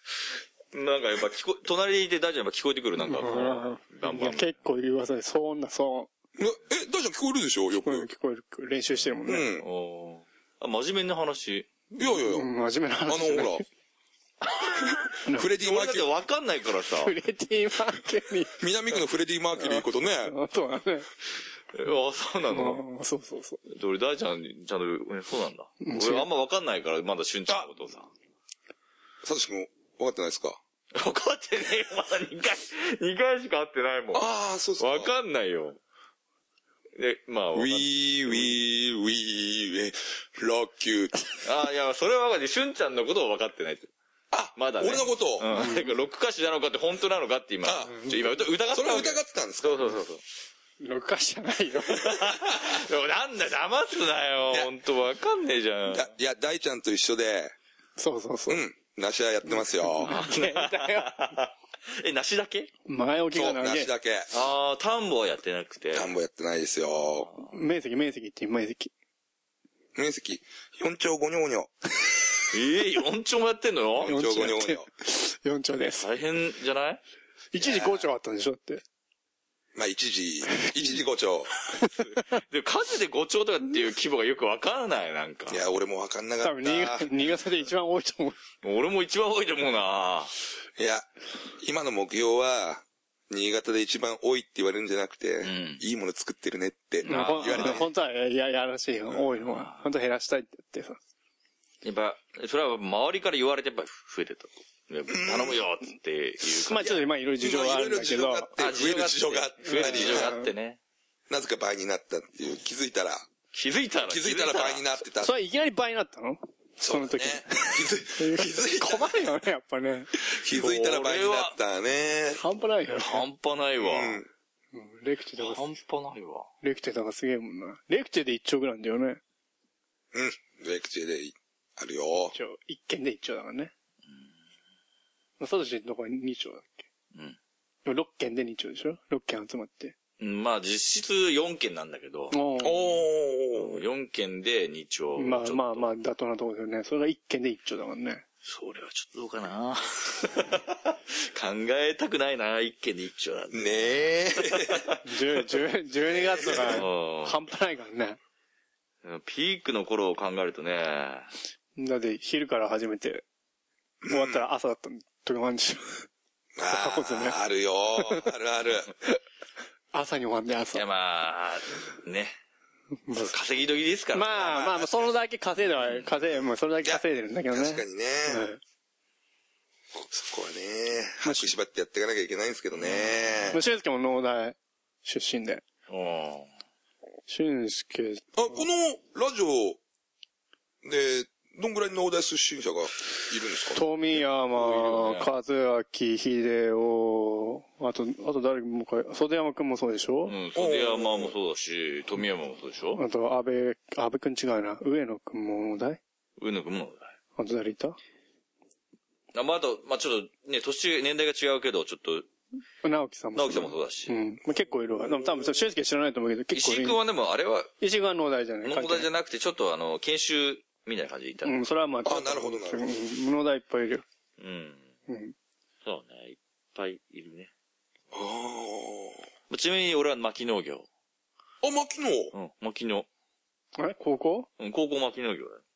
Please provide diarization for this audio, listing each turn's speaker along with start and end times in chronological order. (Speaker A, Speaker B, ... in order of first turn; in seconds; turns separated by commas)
Speaker A: 0.7-4.6, Speaker B: 3.0-6.1, Speaker C: 6.4-8.1, Speaker B: 7.8-9.5, Speaker C: 9.2-9.7, Speaker A: 9.6-11.7, Speaker C: 11.9-12.5, Speaker B: 12.1-13.7, Speaker C: 13.1-13.6, Speaker A: 14.5-17.1, Speaker C: 15.3-16.1, Speaker B: 17.0-18.6, Speaker C: 18.6-20.4, Speaker B: 19.6-21.1, Speaker A: 21.7-22.8, Speaker B: 22.5-23.6, Speaker A: 23.7-28.1, Speaker B: 25.8-26.3, Speaker C: 29.2-30.6, Speaker A: 30.9-34.3, Speaker C: 34.1-35.1, Speaker A: 34.8-35.8, Speaker A: 37.0-38.5, Speaker C: 37.5-41.2, Speaker A: 41.4-43.9, Speaker C: 44.3-45.5, Speaker A: 44.6-50.2, Speaker B: 45.5-45.8, Speaker C: 47.6-48.0, Speaker B: 47.9-48.2, Speaker C: 48.7-49.8, Speaker B: 50.8-52.1, Speaker A: 51.9-56.1, Speaker C: 55.9-57.5, Speaker B: 58.0-58.6, Speaker C: 58.5-60.1, Speaker B: 59.6-61.4, Speaker A: 60.0-62.7, Speaker B: 62.9-63.9, Speaker C: 63.3-64.3, Speaker A: 64.3-66.1, Speaker C: 65.9-67.3, Speaker B: 67.4-68.9, Speaker C: 70.0-71.7, Speaker A: 72.5-74.1, Speaker C: 74.0-74.9, Speaker B: 74.0-76.1, Speaker A: 76.0-77.0, Speaker B: 77.5-78.8, Speaker C: 77.6-78.0, Speaker C: 79.8-81.5, Speaker A: 82.2-85.6, Speaker C: 85.5-87.1, Speaker B: 86.4-88.4, Speaker A: 88.6-90.3, Speaker C: 90.8-91.1, Speaker C: 91.6-97.9, Speaker A: 95.4-95.8, Speaker B: 97.0-101.0, Speaker A: 97.0-97.9, Speaker A: 99.4-99.8, Speaker A: 101.8-107.0, Speaker C: 105.1-105.6, Speaker B: 106.6-108.5, Speaker C: 107.4-110.3, Speaker A: 108.6-110.8, Speaker B: 109.7-110.5, Speaker C: 111.3-113.3, Speaker A: 113.5-114.8, Speaker C: 114.0-115.3, Speaker B: 115.2-120.1, Speaker C: 116.8-119.1, Speaker C: 120.2-122.4, Speaker A: 120.5-121.5, Speaker B: 122.4-123.2, Speaker A: 123.0-124.2, Speaker C: 123.8-124.3, Speaker B: 124.7-125.6, Speaker A: 125.4-126.5, Speaker B: 126.6-129.2, Speaker C: 130.1-132.3, Speaker B: 132.3-133.7, Speaker B: 135.4-136.9, Speaker B: 137.8-140.0, Speaker A: 140.2-142.4, Speaker B: 142.3-142.9, Speaker C: 142.6-143.8, Speaker A: 143.5-145.9, Speaker B: 145.2-148.2, Speaker A: 148.4-155.0, Speaker C: 153.5-154.8, Speaker B: 155.1-158.2, Speaker A: 156.3-157.4, Speaker C: 156.4-156.8, Speaker A: 159.0-161.3, Speaker B: 161.8-163.2, Speaker C: 164.0-164.4, Speaker B: 164.1-166.1, Speaker C: 166.6-168.9, Speaker B: 166.7-167.4, Speaker B: 168.0-168.3, Speaker B: 169.9-170.8, Speaker A: 170.7-172.3, Speaker B: 173.1-173.3, Speaker A: 173.1-174.7, Speaker B: 174.1-178.6, Speaker C: 174.4-174.9, Speaker C: 176.8-178.4, Speaker C: 180.0-183.6, Speaker B: 181.2-181.5, Speaker A: 182.8-183.6, Speaker B: 183.5-185.6, Speaker A: 185.9-186.5, Speaker B: 187.3-188.6, Speaker C: 188.3-189.8, Speaker C: 190.8-193.8, Speaker B: 193.8-200.3, Speaker A: 194.6-195.3, Speaker A: 200.3-203.0, Speaker C: 200.6-201.3, Speaker B: 203.0-206.0, Speaker A: 206.4-207.1, Speaker B: 207.4-208.0, Speaker A: 209.3-212.3, Speaker B: 212.8-217.0, Speaker A: 213.3-214.2, Speaker A: 216.5-217.7, Speaker B: 217.8-219.1, Speaker A: 218.6-221.6, Speaker B: 221.4-224.0, Speaker C: 222.1-222.9, Speaker A: 224.4-224.9, Speaker B: 225.1-225.3, Speaker A: 225.8-227.5, Speaker C: 228.1-229.2, Speaker A: 229.5-230.9, Speaker C: 231.6-232.3, Speaker A: 232.3-233.1, Speaker B: 233.8-234.5, Speaker A: 234.6-235.6